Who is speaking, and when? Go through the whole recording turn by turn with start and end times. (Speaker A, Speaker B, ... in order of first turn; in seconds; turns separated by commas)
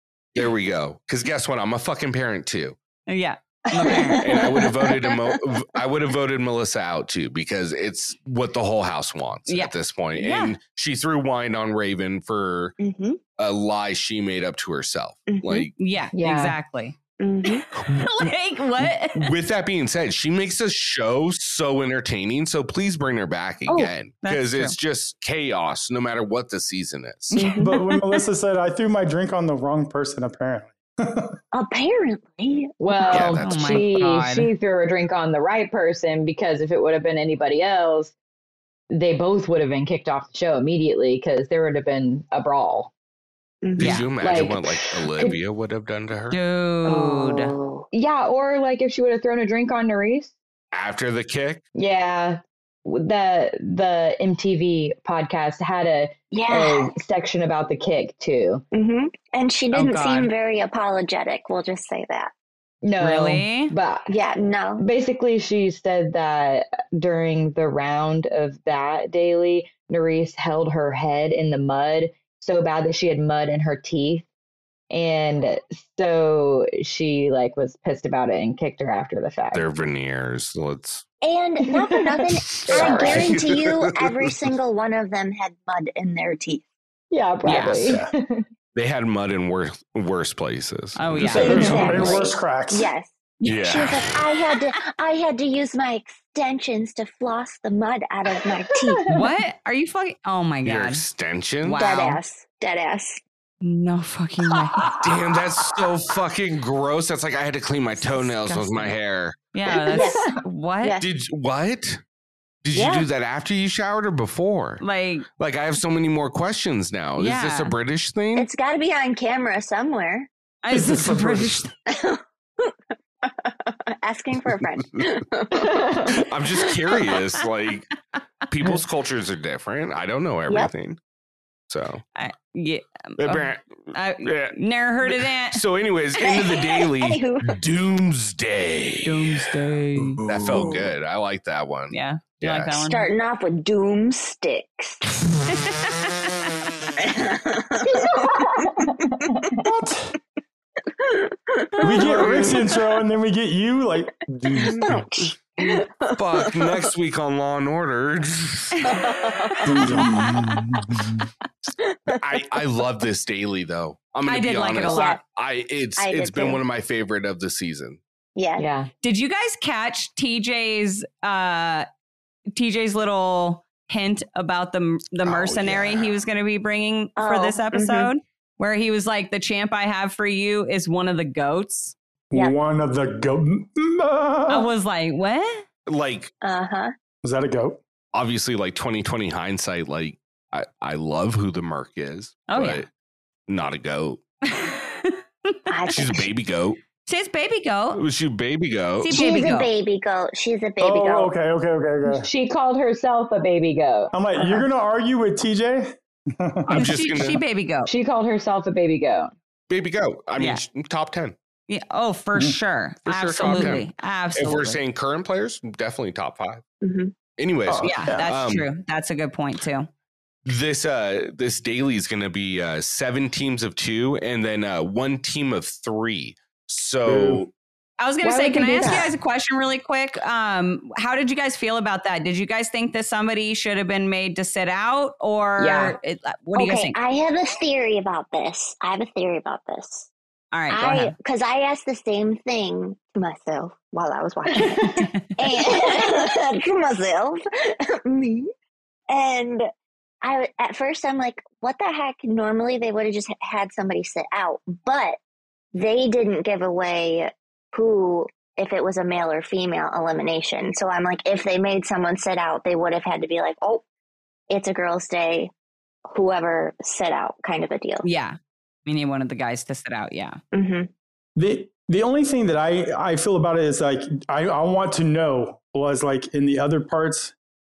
Speaker A: 0.3-2.8, Speaker B: 3.1-4.3, Speaker C: 3.7-5.2, Speaker A: 4.2-12.8, Speaker B: 9.5-10.5, Speaker C: 12.8-13.2, Speaker A: 13.4-15.7, Speaker C: 15.3-15.7, Speaker B: 15.8-17.0, Speaker D: 16.1-16.6, Speaker C: 17.2-17.6, Speaker A: 17.8-27.4, Speaker B: 17.9-19.3, Speaker B: 24.2-24.8, Speaker B: 27.3-27.6, Speaker C: 27.3-27.8, Speaker E: 27.6-31.4, Speaker C: 31.5-33.3, Speaker D: 32.8-38.1, Speaker A: 33.1-33.9, Speaker B: 33.4-34.5, Speaker D: 38.9-42.9, Speaker C: 43.6-44.5, Speaker A: 43.8-46.4, Speaker B: 43.8-44.1, Speaker D: 44.2-45.4, Speaker B: 46.3-47.5, Speaker C: 46.9-47.9, Speaker D: 47.9-50.3, Speaker A: 50.7-51.6, Speaker D: 51.8-58.6, Speaker C: 56.3-57.0, Speaker C: 58.7-62.3, Speaker B: 59.7-60.3, Speaker D: 62.8-64.1, Speaker B: 63.0-63.7, Speaker C: 64.1-64.8, Speaker D: 64.8-74.3, Speaker D: 74.9-79.6, Speaker A: 79.5-81.0, Speaker C: 81.2-86.7, Speaker D: 81.7-83.5, Speaker A: 82.6-84.5, Speaker D: 87.1-88.5, Speaker B: 87.5-87.9, Speaker A: 88.8-92.0, Speaker B: 91.0-92.1, Speaker E: 91.2-92.9, Speaker C: 91.3-99.0, Speaker A: 93.5-94.3, Speaker D: 98.7-99.1, Speaker B: 99.1-101.0, Speaker A: 100.6-101.8, Speaker B: 101.6-102.2, Speaker C: 101.8-103.2, Speaker B: 103.6-104.9, Speaker A: 105.0-109.4, Speaker B: 108.0-108.9, Speaker B: 109.5-111.0, Speaker C: 109.9-110.3, Speaker D: 109.9-110.4, Speaker A: 111.0-112.0, Speaker A: 112.6-114.8, Speaker C: 112.7-113.1, Speaker B: 114.8-115.3, Speaker A: 115.4-118.5, Speaker B: 117.2-117.7, Speaker C: 118.3-120.3, Speaker B: 120.6-121.7, Speaker C: 121.9-126.2, Speaker D: 125.5-126.2, Speaker A: 126.2-127.9, Speaker A: 128.5-131.0, Speaker C: 130.5-130.7, Speaker A: 131.7-132.0, Speaker B: 132.2-135.6, Speaker A: 133.2-139.5, Speaker C: 136.2-137.6, Speaker B: 139.0-140.2, Speaker A: 140.3-142.8, Speaker C: 140.5-140.9, Speaker B: 141.9-143.1, Speaker C: 142.8-145.0, Speaker B: 145.5-146.3, Speaker C: 147.0-148.9, Speaker D: 147.9-149.6, Speaker E: 149.6-150.1, Speaker C: 151.0-152.7, Speaker E: 151.8-154.9, Speaker A: 152.2-152.5, Speaker C: 154.6-156.9, Speaker A: 156.2-158.9, Speaker C: 158.8-160.1, Speaker E: 159.7-161.3, Speaker C: 161.8-162.2, Speaker A: 162.1-168.0, Speaker B: 164.3-165.2, Speaker C: 164.9-165.2, Speaker C: 166.0-166.6, Speaker C: 168.4-168.6, Speaker D: 168.6-168.9, Speaker B: 169.0-171.9, Speaker B: 172.6-181.9, Speaker A: 175.2-176.1, Speaker C: 177.2-178.1, Speaker E: 182.3-184.7, Speaker B: 184.5-185.6, Speaker A: 185.9-186.3, Speaker C: 186.4-186.9, Speaker E: 187.2-187.8, Speaker A: 188.1-192.9, Speaker B: 192.5-192.8, Speaker A: 193.5-194.2, Speaker B: 194.5-195.7, Speaker C: 195.7-196.2, Speaker A: 195.9-196.8, Speaker B: 197.1-198.0, Speaker A: 197.9-199.1, Speaker B: 199.0-199.7, Speaker C: 199.1-201.3, Speaker E: 200.8-202.3, Speaker D: 202.1-204.7, Speaker E: 204.1-206.9, Speaker B: 206.7-207.9, Speaker A: 206.7-207.4, Speaker D: 207.9-209.3, Speaker A: 209.7-211.3, Speaker B: 211.7-214.8, Speaker A: 213.1-216.6, Speaker C: 216.8-217.1, Speaker A: 217.4-218.7, Speaker E: 217.7-218.3, Speaker B: 217.8-219.9, Speaker A: 220.5-227.5, Speaker E: 227.1-227.5, Speaker B: 228.0-237.0, Speaker D: 228.2-229.1, Speaker C: 228.8-229.1, Speaker D: 235.6-236.0, Speaker C: 236.6-240.1, Speaker B: 240.5-241.1, Speaker C: 240.7-248.5, Speaker D: 244.5-245.1, Speaker B: 244.6-245.3, Speaker C: 249.1-249.6, Speaker C: 250.2-255.2, Speaker C: 255.7-263.8, Speaker C: 264.5-265.5, Speaker C: 266.1-268.1, Speaker B: 268.0-268.4, Speaker B: 268.9-270.4, Speaker C: 270.5-270.9, Speaker E: 271.4-277.3